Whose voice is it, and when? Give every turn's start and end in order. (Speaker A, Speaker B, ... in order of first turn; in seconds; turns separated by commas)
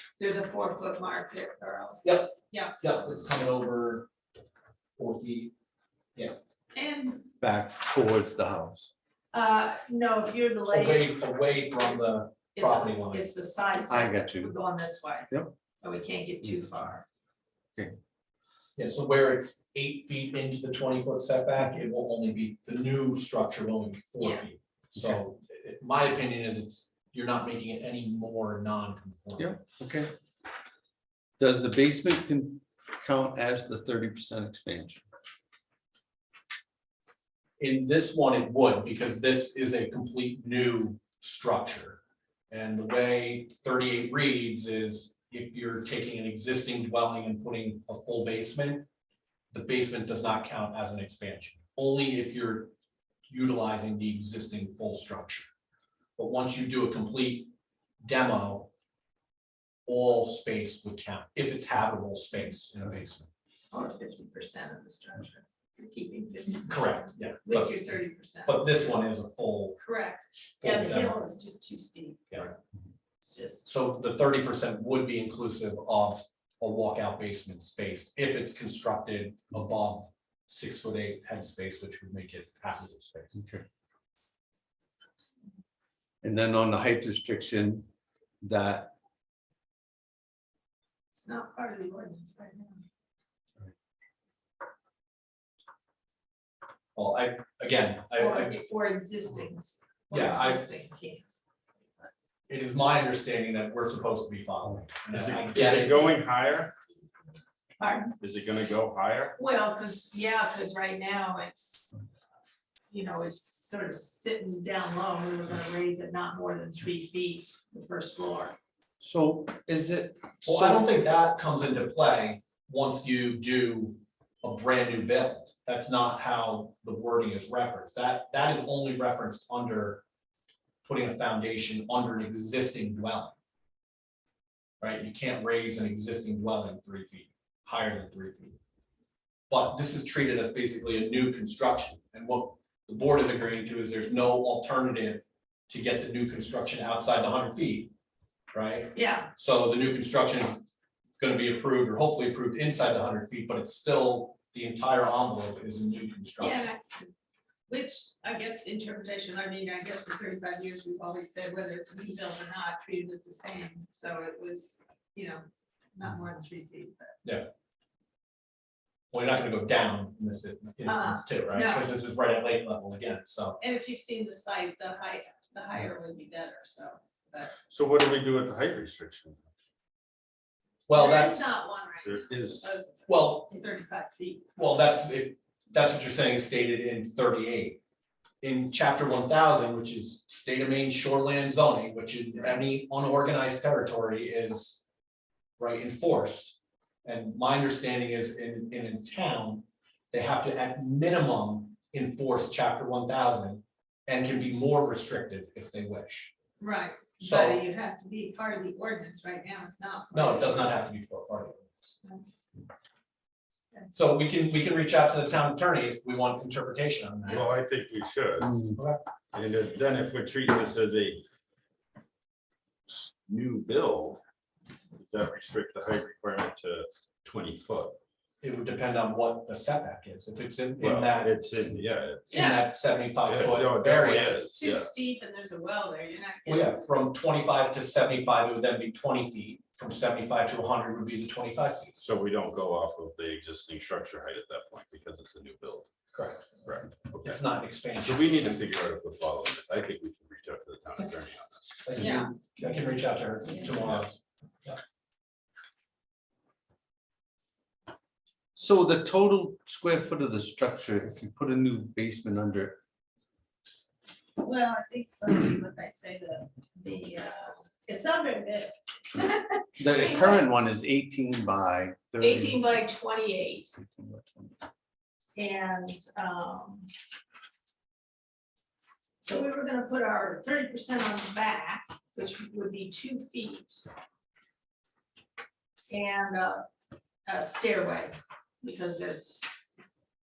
Speaker A: 0.2-2.8, Speaker B: 2.0-4.1, Speaker B: 5.0-5.5, Speaker A: 6.7-7.3, Speaker C: 7.4-8.9, Speaker A: 9.3-17.0, Speaker B: 10.7-13.3, Speaker C: 13.9-14.6, Speaker B: 18.8-29.6, Speaker C: 29.4-30.1, Speaker C: 31.4-35.0, Speaker B: 37.6-48.9, Speaker B: 49.5-52.7, Speaker B: 53.3-55.5, Speaker B: 56.2-57.5, Speaker B: 58.0-58.7, Speaker B: 59.9-63.3, Speaker A: 63.7-68.8, Speaker B: 66.7-67.7, Speaker B: 68.4-69.8, Speaker A: 69.8-72.5, Speaker B: 70.6-71.2, Speaker A: 73.2-73.7, Speaker B: 73.6-83.4, Speaker C: 83.3-83.6, Speaker C: 86.2-87.9, Speaker C: 88.4-88.9, Speaker A: 91.1-92.8, Speaker B: 97.0-98.5, Speaker A: 98.2-101.2, Speaker B: 100.1-100.6, Speaker B: 102.5-106.3, Speaker D: 105.1-106.7, Speaker A: 107.8-108.1, Speaker D: 108.2-109.3, Speaker A: 109.4-111.9, Speaker A: 112.9-118.5, Speaker C: 119.0-120.9, Speaker B: 120.4-130.0, Speaker B: 130.8-133.3, Speaker B: 134.8-138.6, Speaker B: 139.5-147.9, Speaker B: 148.5-150.7, Speaker A: 148.9-149.3, Speaker B: 151.2-156.7, Speaker A: 156.4-157.1, Speaker A: 157.7-167.1, Speaker B: 167.2-167.5, Speaker B: 169.1-173.6, Speaker A: 170.8-171.9, Speaker A: 173.6-177.5, Speaker D: 177.7-179.4, Speaker B: 180.9-181.5, Speaker A: 180.9-184.5, Speaker D: 182.0-182.8, Speaker B: 183.1-183.5, Speaker B: 184.5-187.8, Speaker B: 188.4-194.8, Speaker B: 195.6-206.3, Speaker A: 206.6-210.8, Speaker B: 207.2-207.6, Speaker B: 210.1-211.8, Speaker B: 213.9-217.4, Speaker D: 217.3-218.5, Speaker C: 218.4-218.8, Speaker B: 218.8-219.0, Speaker D: 219.3-221.2, Speaker D: 223.3-224.2, Speaker D: 224.9-227.9, Speaker B: 228.4-231.6, Speaker D: 230.8-232.4, Speaker B: 232.3-234.5, Speaker A: 232.3-232.6, Speaker D: 233.3-234.9, Speaker A: 234.3-237.0, Speaker B: 236.4-241.9, Speaker D: 242.0-245.9, Speaker B: 246.1-246.6, Speaker D: 246.6-247.4, Speaker B: 247.2-248.6, Speaker D: 248.0-251.8, Speaker B: 251.8-254.1, Speaker A: 251.9-252.3, Speaker C: 258.5-262.8, Speaker A: 264.4-270.4, Speaker C: 269.8-272.6, Speaker A: 272.2-273.7, Speaker C: 273.8-274.5, Speaker A: 275.4-276.9, Speaker A: 279.2-283.9, Speaker A: 285.9-286.6, Speaker A: 287.2-289.5